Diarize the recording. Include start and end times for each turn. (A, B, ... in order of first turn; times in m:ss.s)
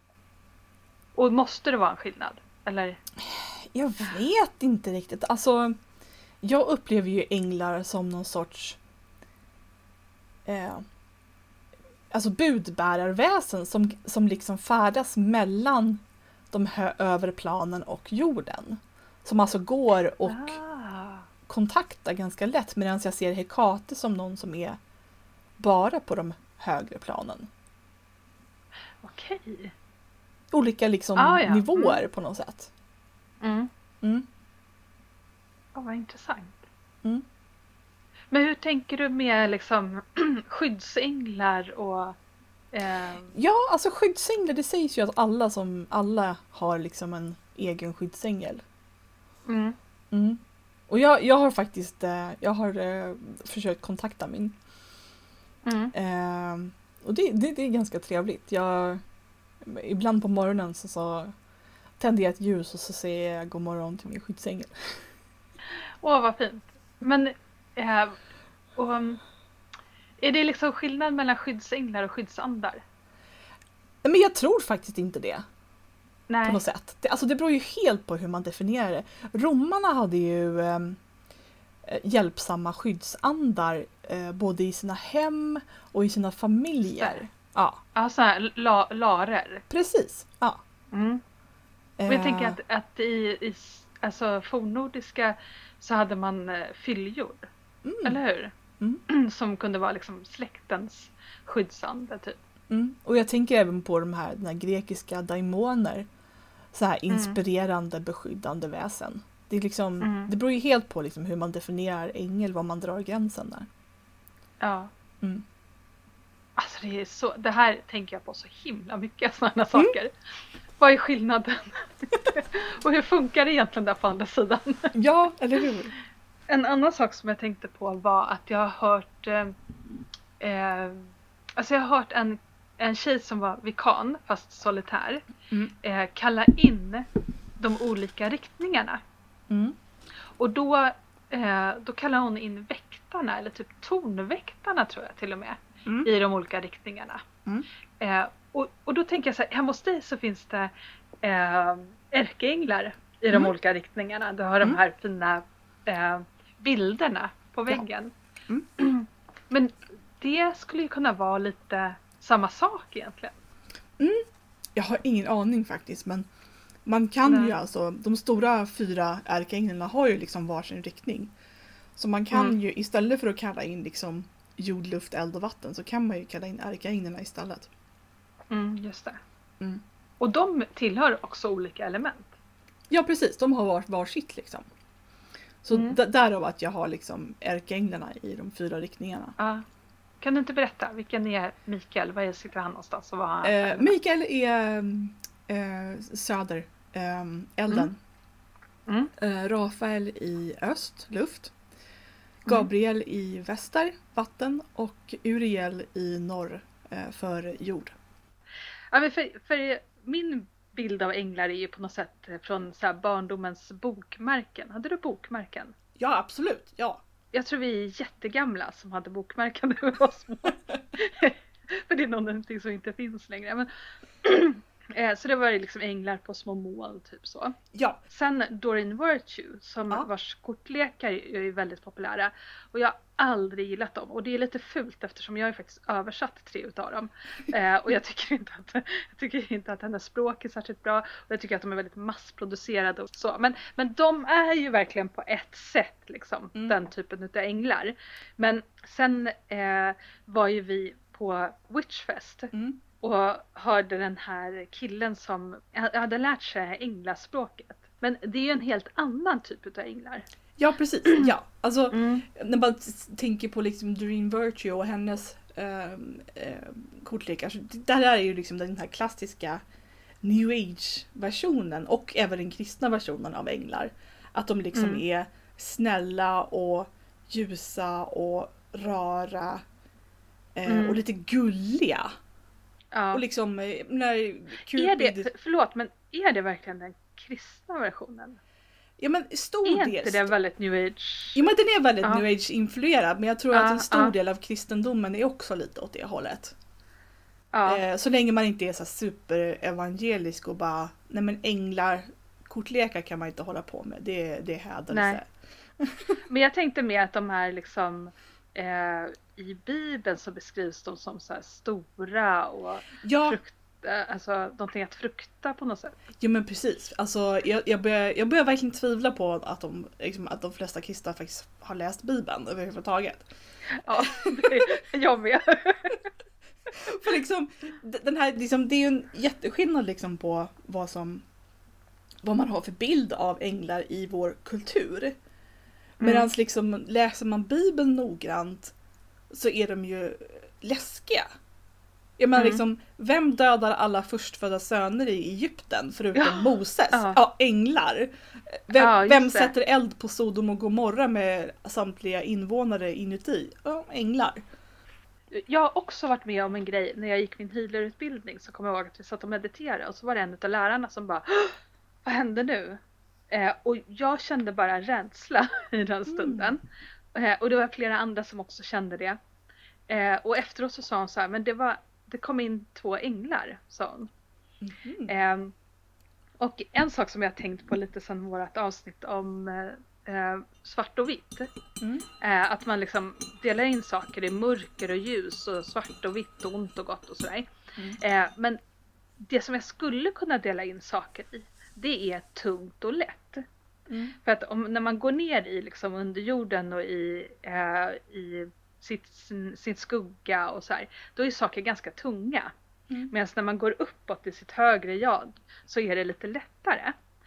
0:01.1-0:03.0 A
0:03.2-0:05.8 B
0:06.4-0:08.8 B
0:10.4-0:10.8 B
0:12.1-0:20.6 B
0:20.3-0:21.2 A
0:21.5-0:24.8 B
0:25.6-0:27.5 B
0:29.0-0:29.7 A
0:30.5-0:32.7 B
0:31.2-0:32.0 A
0:33.4-0:33.7 A
0:35.7-0:36.6 A
0:38.3-0:42.2 A
0:42.7-0:43.3 A
0:43.3-0:48.6 B
0:49.4-0:49.8 A
0:50.1-0:54.6 B
0:55.6-0:55.9 A
0:55.9-0:59.0 B
0:59.6-1:01.3 B
1:02.0-1:05.0 B
1:05.7-1:08.2 A
1:08.8-1:09.2 A
1:10.2-1:12.8 A
1:14.0-1:15.4 B
1:16.3-1:16.6 A
1:16.4-1:21.0 B
1:21.8-1:27.8 B
1:27.0-1:27.2 A
1:27.9-1:29.6 A
1:29.7-1:30.6 B
1:30.9-1:31.2 A
1:32.0-1:32.6 B
1:32.1-1:37.5 A
1:37.8-1:38.2 B
1:38.0-1:38.5 A
1:39.1-1:42.4 A
1:42.7-1:46.1 B
1:46.7-1:53.7 B
1:47.1-1:47.4 A
1:50.0-1:50.3 A
1:54.6-1:54.9 A
1:56.6-2:00.1 A
2:00.8-2:04.9 A
2:04.9-2:06.0 B
2:06.5-2:09.5 A
2:10.4-2:15.2 A
2:15.8-2:19.0 A
2:19.5-2:19.8 B
2:20.4-2:27.2 A
2:25.8-2:26.1 B
2:28.0-2:30.7 A
2:31.2-2:38.1 A
2:38.8-2:43.4 A
2:44.0-2:44.2 B
2:44.8-2:46.3 B
2:46.8-2:51.3 B
2:47.2-2:47.6 A
2:52.0-2:57.7 B
2:58.5-2:59.2 A
3:00.2-3:02.3 A
3:02.9-3:04.6 B
3:05.6-3:09.4 B
3:05.7-3:06.0 A
3:09.4-3:09.6 A
3:10.2-3:13.9 A
3:13.4-3:18.0 B
3:19.2-3:21.5 B
3:22.4-3:28.0 B
3:28.9-3:35.7 A
3:36.0-3:37.0 B
3:37.3-3:43.7 A
3:44.2-3:47.6 A
3:47.7-3:48.0 B
3:48.1-4:20.2 A
4:12.5-4:12.8 B
4:20.6-4:29.6 B
4:21.9-4:22.2 A
4:30.2-4:39.6 B
4:34.7-4:35.0 A
4:40.6-4:42.1 B
4:40.7-4:41.0 A
4:42.9-4:43.2 A
4:43.1-4:45.3 B
4:44.7-4:48.4 A
4:49.0-4:50.3 B
4:49.6-4:51.4 A
4:51.3-4:56.5 B
4:53.5-4:54.1 A
4:57.5-4:57.8 A
4:57.6-5:05.3 B
5:04.9-5:05.2 A
5:05.8-5:06.2 B
5:06.2-5:16.0 A
5:13.0-5:13.4 B
5:16.2-5:23.3 B
5:23.8-5:26.0 A
5:23.9-5:24.7 B
5:26.8-5:31.2 B
5:32.2-5:35.2 B
5:36.0-5:36.3 A
5:36.0-5:38.7 B
5:39.3-5:41.3 B
5:42.2-5:54.4 B
5:42.4-5:42.6 A
5:46.2-5:47.2 A
5:48.7-5:49.5 A
5:55.3-6:06.6 A
6:06.1-6:06.6 B
6:07.1-6:09.2 A
6:09.9-6:14.1 A
6:14.6-6:15.1 B
6:15.1-6:15.5 A
6:16.4-6:21.5 A
6:22.2-6:28.6 A
6:29.2-6:33.4 A
6:33.9-6:34.2 B
6:34.2-6:42.5 A
6:43.1-6:47.0 A